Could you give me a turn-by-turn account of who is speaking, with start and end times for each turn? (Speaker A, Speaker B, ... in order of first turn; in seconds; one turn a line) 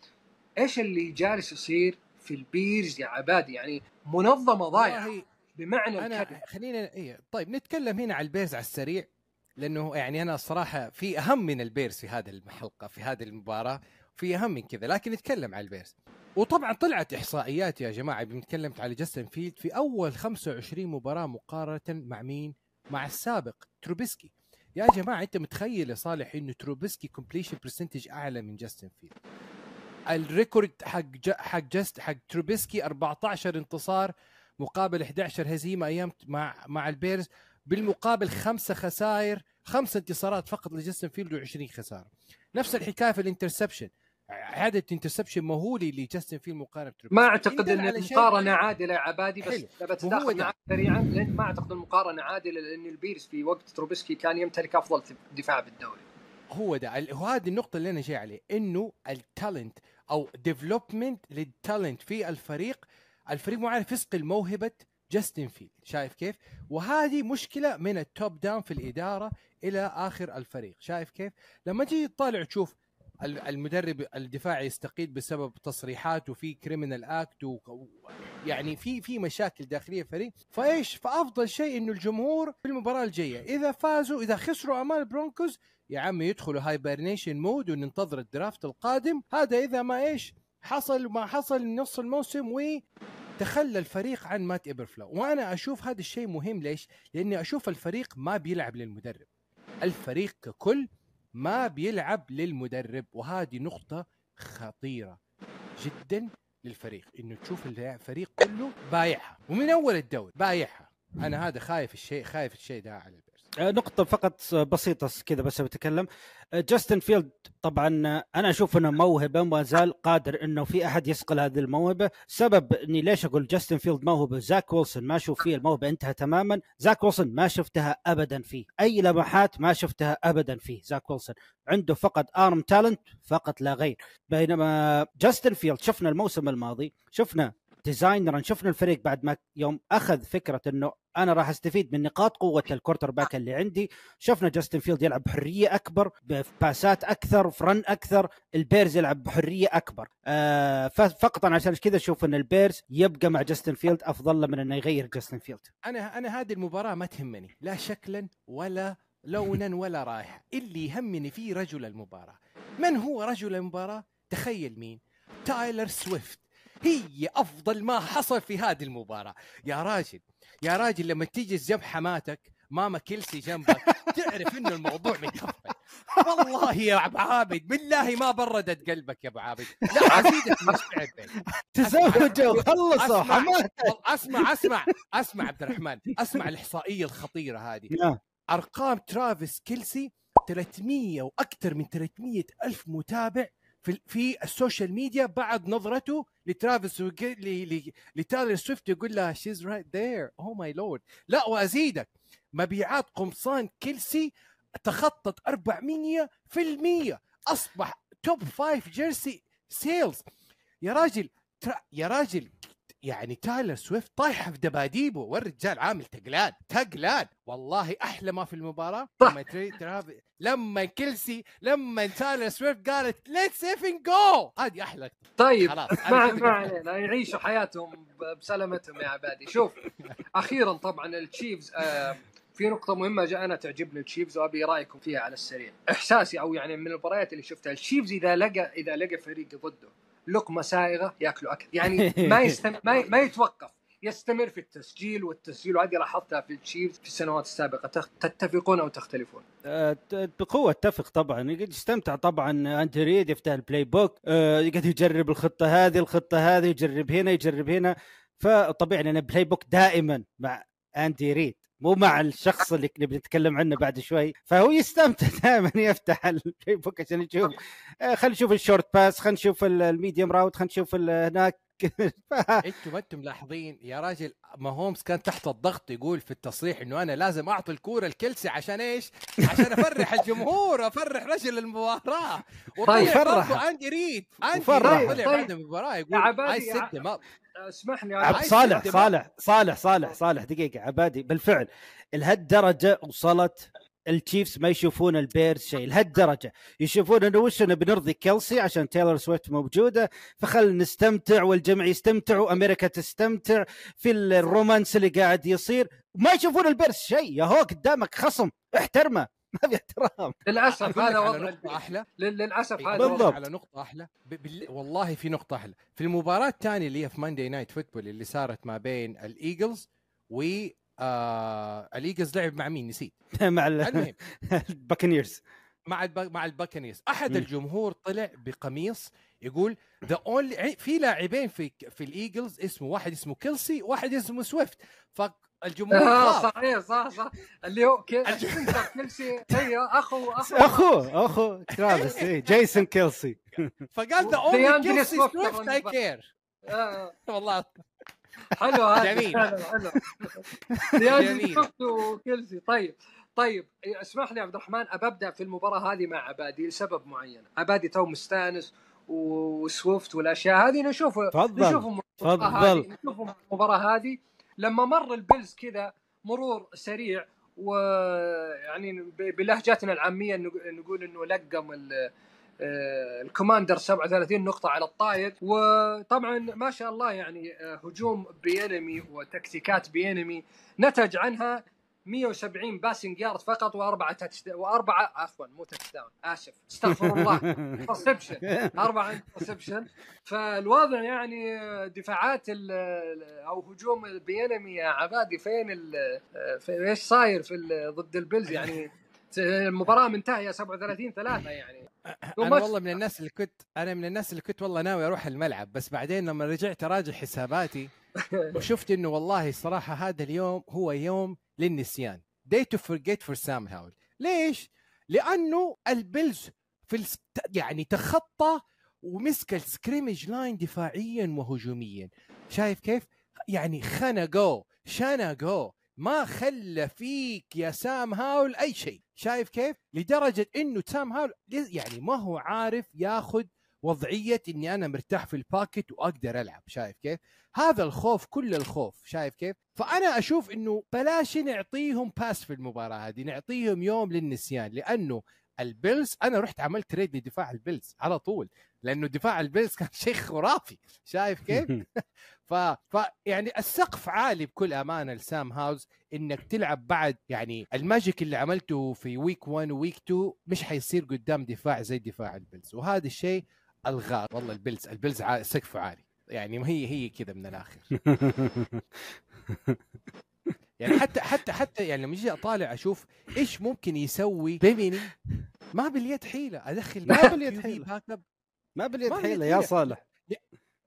Speaker A: 0.6-6.4
Speaker B: 4.7-5.2
Speaker B: 6.0-29.1
Speaker B: 30.1-48.5
Speaker A: 47.1-56.0
Speaker B: 49.5-50.5
Speaker B: 56.5-77.9
Speaker B: 78.4-92.8
Speaker B: 93.4-99.3
Speaker B: 99.8-105.2
Speaker B: 105.8-113.5
Speaker C: 113.6-155.7
Speaker B: 155.8-187.9
Speaker C: 173.7-174.1
Speaker C: 176.2-176.5
Speaker C: 179.9-180.7
Speaker A: 180.1-180.8
Speaker C: 181.6-184.7
Speaker C: 187.9-188.2
Speaker B: 188.5-204.3
Speaker B: 204.8-210.2
Speaker B: 210.8-212.5
Speaker B: 213.1-226.7
Speaker A: 225.4-229.8
Speaker A: 230.3-249.4
Speaker C: 241.9-242.6
Speaker C: 249.7-272.6
Speaker B: 272.6-287.2
Speaker A: 282.9-283.1
Speaker C: 282.9-283.6
Speaker C: 284.5-285.2
Speaker A: 284.8-285.5
Speaker A: 286.1-287.0
Speaker A: 287.6-289.1
Speaker C: 288.2-310.4
Speaker B: 288.3-289.1
Speaker A: 310.5-313.4
Speaker B: 310.8-312.0
Speaker B: 312.8-323.1
Speaker C: 313.0-313.4
Speaker C: 323.4-325.4
Speaker B: 323.8-324.1
Speaker B: 325.9-336.5
Speaker A: 335.9-341.0
Speaker B: 338.3-339.7
Speaker C: 340.4-343.7
Speaker B: 341.7-342.6
Speaker B: 343.9-346.3
Speaker A: 344.4-345.9
Speaker A: 346.7-347.1
Speaker B: 347.3-347.7
Speaker A: 348.5-402.7
Speaker B: 349.0-349.7
Speaker C: 350.7-351.2
Speaker B: 351.1-351.7
Speaker C: 361.3-362.9
Speaker C: 386.9-387.9
Speaker C: 388.4-388.8
Speaker B: 398.5-398.8
Speaker B: 402.2-407.9
Speaker A: 408.2-408.6
Speaker B: 408.5-467.9
Speaker C: 468.1-468.8
Speaker C: 469.5-469.8
Speaker B: 470.8-475.1
Speaker B: 475.8-478.2
Speaker C: 477.1-477.9
Speaker C: 478.8-480.0
Speaker B: 479.1-480.4